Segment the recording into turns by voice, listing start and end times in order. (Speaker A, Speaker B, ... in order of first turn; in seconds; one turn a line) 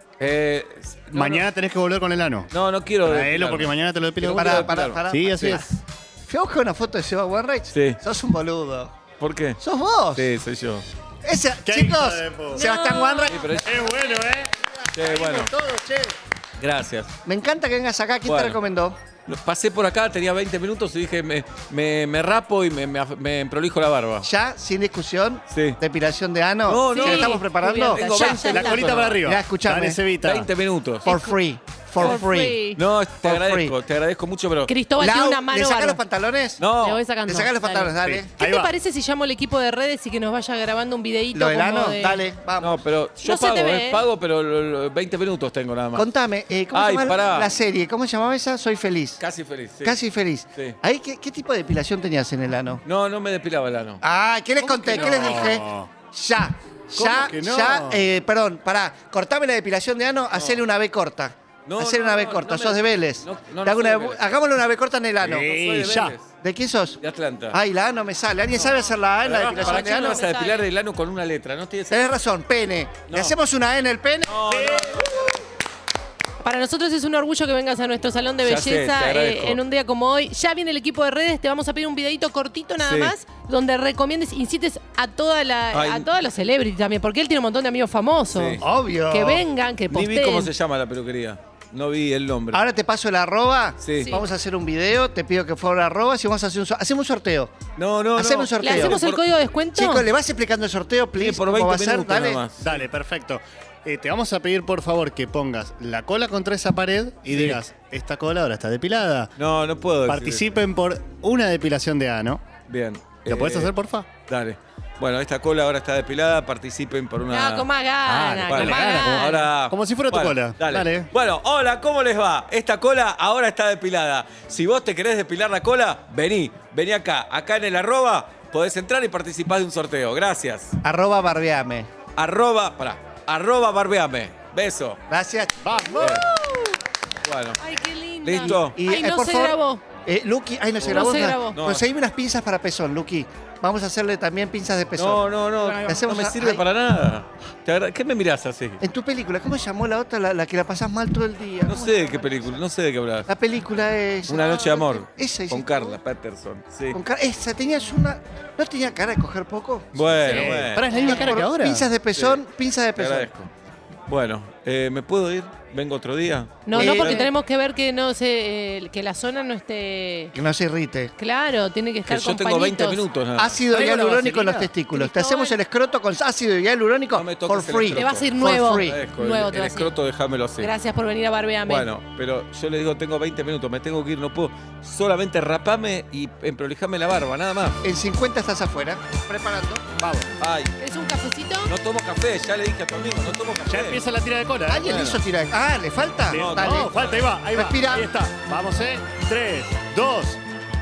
Speaker A: 0.2-1.5
Speaker B: 1.1-2.5
Speaker A: 2.5-5.6
Speaker B: 3.0-5.7
Speaker C: 4.3-8.9
Speaker A: 7.7-8.0
Speaker A: 9.2-9.6
Speaker C: 9.6-10.3
Speaker A: 10.1-10.8
Speaker C: 11.2-13.4
Speaker B: 11.6-12.7
Speaker D: 12.5-13.4
Speaker A: 13.3-13.9
Speaker B: 13.4-16.1
Speaker A: 14.9-15.5
Speaker A: 16.6-17.1
Speaker C: 17.2-19.0
Speaker A: 18.2-18.6
Speaker A: 19.3-24.3
Speaker C: 24.2-28.4
Speaker A: 25.5-25.8
Speaker A: 26.7-29.2
Speaker D: 26.8-29.0
Speaker B: 28.4-30.5
Speaker C: 29.2-30.0
Speaker A: 30.2-31.1
Speaker D: 31.1-31.4
Speaker C: 31.1-32.6
Speaker D: 32.0-32.8
Speaker A: 32.7-34.7
Speaker C: 33.2-33.7
Speaker D: 34.7-36.0
Speaker C: 35.0-36.7
Speaker A: 36.6-37.0
Speaker D: 36.7-42.2
Speaker C: 37.2-38.3
Speaker B: 38.0-38.7
Speaker C: 41.3-42.8
Speaker A: 42.6-46.1
Speaker D: 43.2-44.1
Speaker C: 45.9-49.2
Speaker A: 46.7-47.5
Speaker A: 49.2-50.0
Speaker C: 49.8-52.8
Speaker A: 52.8-54.0
Speaker C: 54.0-65.5
Speaker B: 54.6-55.9
Speaker A: 54.9-55.4
Speaker B: 57.0-58.1
Speaker A: 60.3-60.6
Speaker A: 61.6-64.3
Speaker B: 65.2-66.1
Speaker A: 65.3-66.3
Speaker C: 66.4-67.0
Speaker A: 67.0-67.6
Speaker C: 67.5-70.2
Speaker A: 68.5-72.1
Speaker D: 69.4-70.7
Speaker C: 71.9-74.4
Speaker A: 73.1-73.3
Speaker A: 74.2-75.3
Speaker B: 74.5-75.1
Speaker D: 76.4-90.5
Speaker A: 78.4-79.6
Speaker A: 82.8-83.1
Speaker A: 85.7-86.1
Speaker A: 88.3-88.6
Speaker C: 88.6-89.5
Speaker A: 89.9-92.6
Speaker C: 92.5-97.5
Speaker A: 93.8-94.2
Speaker D: 94.0-94.3
Speaker A: 97.8-99.2
Speaker C: 98.2-99.0
Speaker D: 98.6-100.1
Speaker C: 99.7-102.4
Speaker A: 101.2-102.8
Speaker B: 102.6-109.3
Speaker A: 107.3-107.6
Speaker A: 109.4-110.5
Speaker B: 110.1-112.4
Speaker A: 112.7-113.7
Speaker B: 113.3-114.1
Speaker A: 114.2-117.7
Speaker D: 117.2-119.5
Speaker B: 118.0-121.1
Speaker A: 118.3-130.8
Speaker C: 130.8-131.9
Speaker A: 132.2-135.0
Speaker C: 135.1-136.2
Speaker D: 135.8-136.8
Speaker A: 136.0-136.3
Speaker A: 137.2-137.6
Speaker D: 137.6-139.9
Speaker A: 138.2-138.8
Speaker C: 138.4-146.6
Speaker A: 140.8-141.8
Speaker D: 140.8-141.6
Speaker A: 144.9-148.8
Speaker C: 148.8-152.2
Speaker A: 151.6-153.3
Speaker C: 153.3-156.0
Speaker A: 154.3-157.0
Speaker C: 156.9-163.3
Speaker A: 159.9-161.4
Speaker B: 160.2-161.9
Speaker D: 160.4-161.3
Speaker A: 162.1-162.4
Speaker A: 162.9-163.5
Speaker A: 164.1-167.3
Speaker D: 166.7-170.3
Speaker C: 166.7-167.3
Speaker C: 170.3-171.1
Speaker D: 171.2-173.1
Speaker A: 172.1-173.6
Speaker C: 173.3-179.0
Speaker B: 173.7-174.7
Speaker D: 174.9-175.6
Speaker A: 177.1-180.7
Speaker D: 177.9-179.9
Speaker D: 180.6-181.9
Speaker A: 181.7-187.8
Speaker C: 187.8-189.8
Speaker B: 190.0-190.3
Speaker A: 190.4-190.7
Speaker D: 190.8-191.7
Speaker A: 191.7-194.0
Speaker B: 193.7-195.1
Speaker C: 194.7-198.1
Speaker A: 194.9-195.2
Speaker B: 196.3-200.4
Speaker A: 196.3-197.0